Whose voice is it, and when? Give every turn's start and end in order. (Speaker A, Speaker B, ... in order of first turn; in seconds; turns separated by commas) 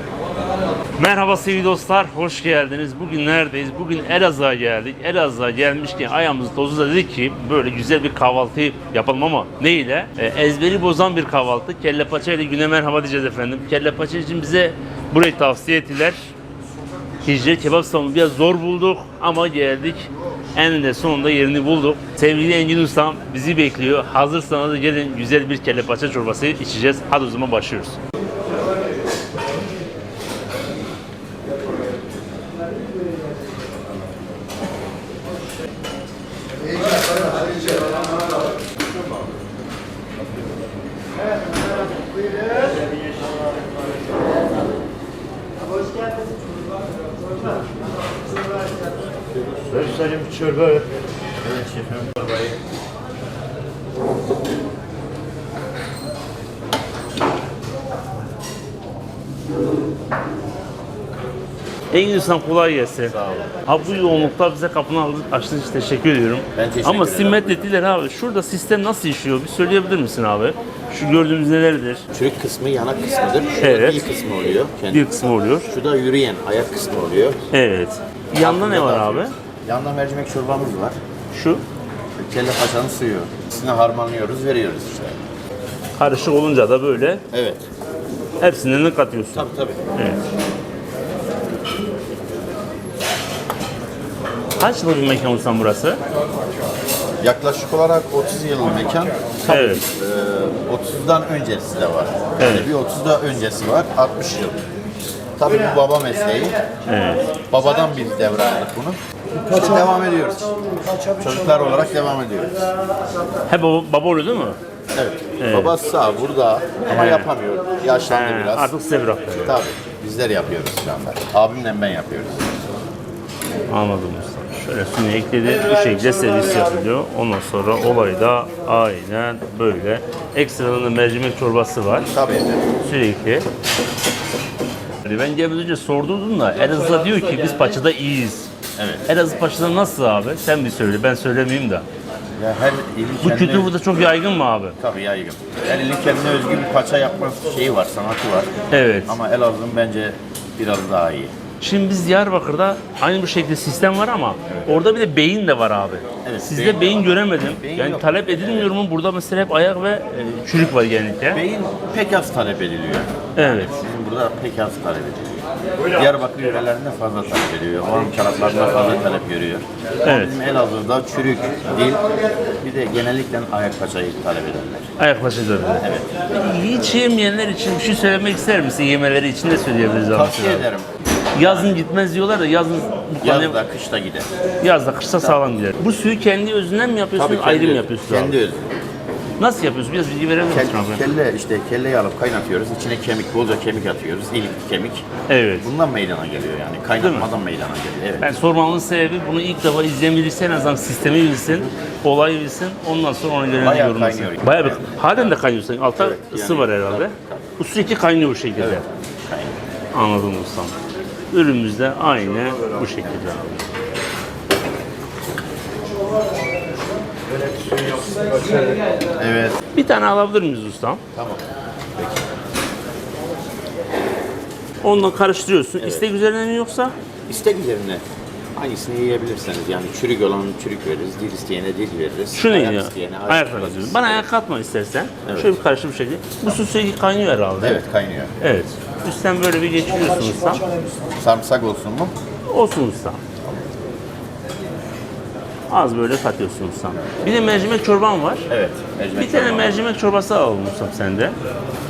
Speaker A: 1.0-16.3, Speaker A: 17.2-28.0, Speaker B: 49.6-50.9, Speaker B: 51.4-52.6, Speaker A: 61.9-72.0, Speaker B: 63.0-64.3, Speaker B: 66.5-67.7, Speaker B: 72.1-75.1, Speaker A: 73.6-74.1, Speaker A: 74.9-75.7, Speaker B: 75.7-77.4, Speaker A: 77.5-79.3, Speaker B: 78.4-81.0, Speaker A: 81.3-81.6, Speaker B: 82.2-85.3, Speaker A: 86.0-87.2, Speaker B: 87.3-87.7, Speaker A: 88.4-90.2, Speaker B: 89.3-89.8, Speaker A: 94.6-96.0, Speaker B: 97.2-104.6, Speaker A: 99.5-99.8, Speaker A: 102.4-102.7, Speaker B: 105.4-106.6, Speaker A: 106.9-107.3, Speaker B: 107.5-112.6, Speaker A: 113.5-114.6, Speaker B: 114.9-118.7, Speaker A: 115.4-115.7, Speaker A: 116.9-117.3, Speaker A: 118.1-119.6, Speaker B: 119.4-122.4, Speaker A: 123.7-132.1, Speaker B: 132.1-132.7, Speaker A: 132.8-133.5, Speaker A: 135.0-138.5, Speaker B: 138.8-139.1, Speaker A: 139.1-141.8, Speaker B: 142.4-143.7, Speaker A: 143.2-144.8, Speaker B: 144.8-148.5, Speaker A: 148.7-149.2, Speaker B: 149.1-151.3, Speaker A: 151.6-161.4, Speaker B: 156.2-158.7, Speaker B: 161.3-174.9, Speaker A: 163.4-163.8, Speaker A: 170.1-170.4, Speaker A: 175.0-180.7, Speaker B: 175.8-176.1, Speaker B: 180.0-181.8, Speaker A: 181.3-183.6, Speaker B: 183.2-184.3, Speaker A: 184.6-188.4, Speaker B: 187.2-188.8, Speaker A: 189.4-191.2, Speaker B: 190.5-195.1, Speaker A: 195.3-195.7, Speaker B: 195.6-198.3, Speaker A: 197.0-197.3, Speaker A: 198.2-208.8, Speaker B: 203.5-205.4, Speaker B: 206.0-207.4, Speaker B: 208.6-209.6, Speaker A: 209.9-210.7, Speaker A: 211.3-213.7, Speaker B: 217.6-219.6, Speaker A: 219.7-221.0, Speaker B: 221.1-221.4, Speaker A: 224.8-226.9, Speaker B: 225.8-226.1, Speaker B: 227.3-228.0, Speaker B: 228.6-234.3, Speaker A: 232.3-237.8, Speaker B: 235.2-235.6, Speaker B: 237.6-238.3, Speaker A: 238.4-240.7, Speaker B: 241.1-242.1, Speaker A: 242.5-243.2, Speaker A: 245.7-248.5, Speaker B: 248.5-249.9, Speaker A: 249.2-251.3